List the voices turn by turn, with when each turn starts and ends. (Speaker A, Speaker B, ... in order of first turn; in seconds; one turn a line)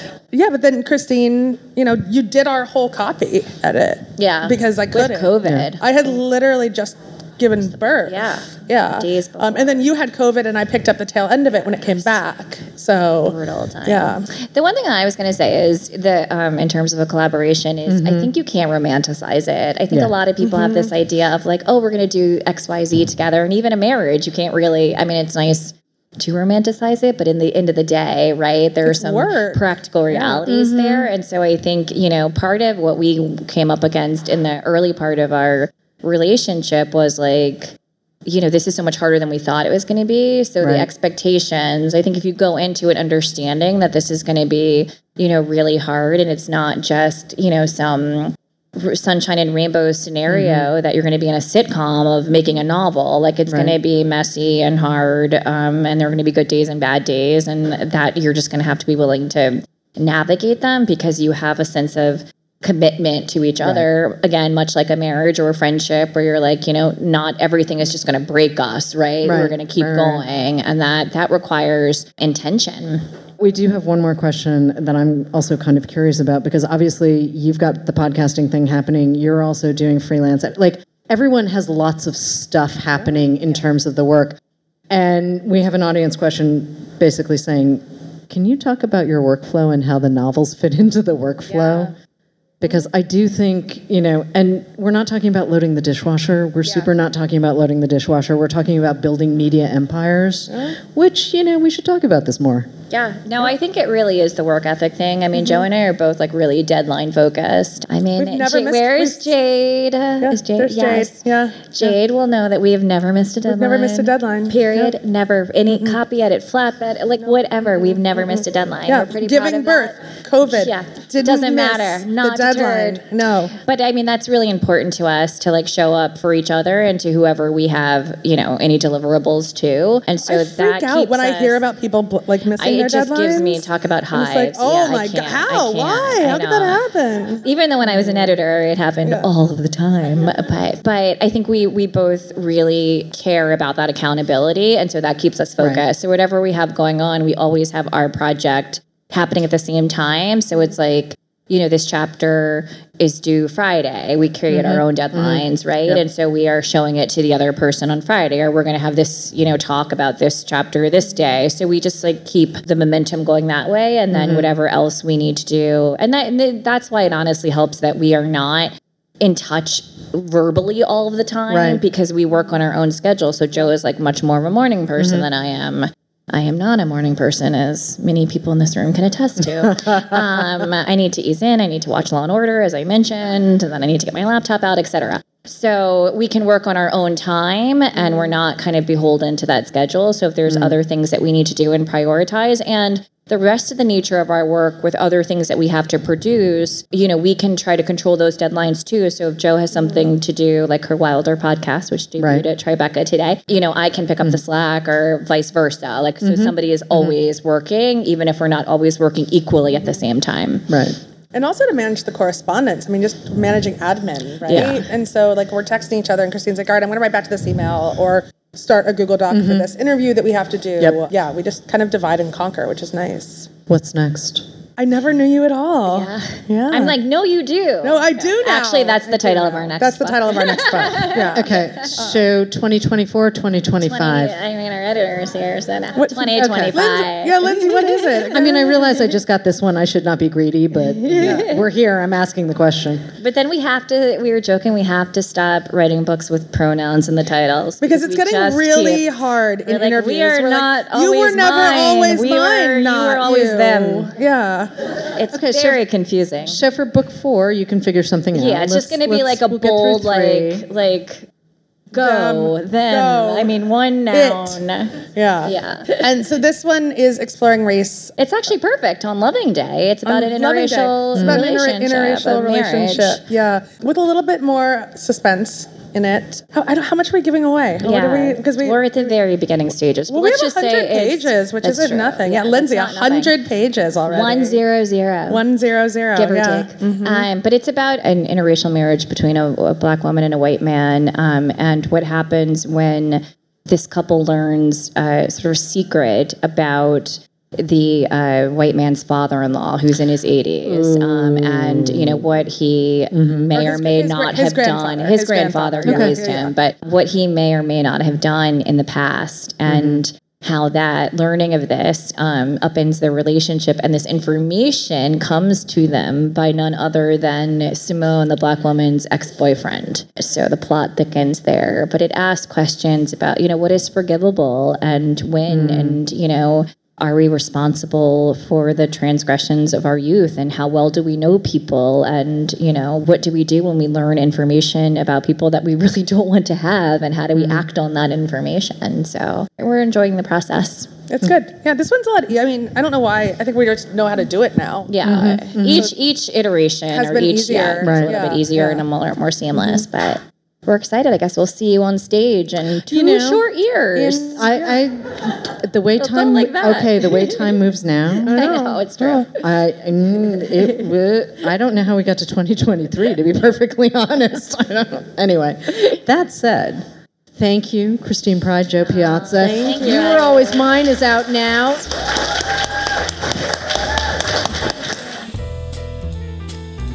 Speaker A: 0.3-14.3
Speaker B: 4.2-5.8
Speaker C: 5.4-5.7
Speaker B: 8.0-9.8
Speaker B: 13.2-37.7
Speaker C: 17.9-18.3
Speaker A: 20.4-20.9
Speaker A: 28.9-30.4
Speaker C: 30.4-31.1
Speaker B: 38.2-73.0
Speaker C: 40.6-40.9
Speaker C: 50.3-50.7
Speaker C: 53.5-53.8
Speaker C: 69.2-70.2
Speaker C: 73.4-91.9
Speaker C: 92.6-102.7
Speaker B: 102.9-119.9
Speaker A: 108.2-109.3
Speaker A: 110.2-112.0
Speaker A: 113.5-114.9
Speaker A: 115.7-116.0
Speaker A: 117.2-123.5
Speaker B: 120.5-131.6
Speaker A: 130.2-138.3
Speaker B: 132.6-136.8
Speaker B: 137.4-210.7
Speaker C: 145.6-145.8
Speaker C: 154.5-156.0
Speaker C: 164.1-164.5
Speaker C: 171.5-171.8
Speaker C: 175.0-175.2
Speaker C: 179.7-180.0
Speaker C: 190.5-190.8
Speaker C: 202.2-202.4
Speaker C: 206.2-207.2
Speaker C: 210.7-211.0
Speaker A: 211.3-223.5
Speaker B: 214.5-214.9
Speaker C: 219.3-219.7
Speaker C: 223.7-224.4
Speaker A: 224.8-227.0
Speaker B: 225.9-232.0
Speaker A: 227.8-232.2
Speaker C: 231.1-234.3
Speaker B: 233.8-238.8
Speaker A: 235.9-238.9
Speaker C: 236.3-236.8
Speaker C: 238.2-243.1
Speaker B: 240.9-241.6
Speaker A: 241.2-241.4
Speaker B: 243.2-249.1
Speaker A: 247.8-254.9
Speaker B: 249.7-254.1
Speaker B: 255.1-256.6
Speaker C: 255.3-255.8
Speaker C: 256.4-260.6
Speaker B: 258.3-261.3
Speaker B: 261.9-266.0
Speaker A: 261.9-263.6
Speaker A: 264.1-264.6
Speaker A: 265.1-268.1
Speaker B: 268.2-273.2
Speaker A: 270.1-278.9
Speaker C: 271.1-271.5
Speaker B: 277.8-283.3
Speaker A: 280.1-284.6
Speaker B: 284.1-285.4
Speaker A: 285.3-287.3
Speaker B: 286.1-340.9
Speaker C: 300.6-302.3
Speaker C: 303.1-303.5
Speaker A: 303.5-306.5
Speaker C: 305.8-306.1
Speaker C: 309.7-310.0
Speaker C: 325.5-326.0
Speaker C: 337.3-337.6
Speaker A: 341.1-344.9
Speaker B: 344.9-354.5
Speaker C: 345.0-345.9
Speaker A: 346.9-348.8
Speaker C: 347.8-348.2
Speaker C: 349.6-349.8
Speaker C: 352.8-353.4
Speaker A: 353.9-354.8
Speaker C: 354.4-372.0
Speaker B: 356.0-357.5
Speaker B: 358.2-359.3
Speaker B: 368.9-370.7
Speaker A: 369.4-370.2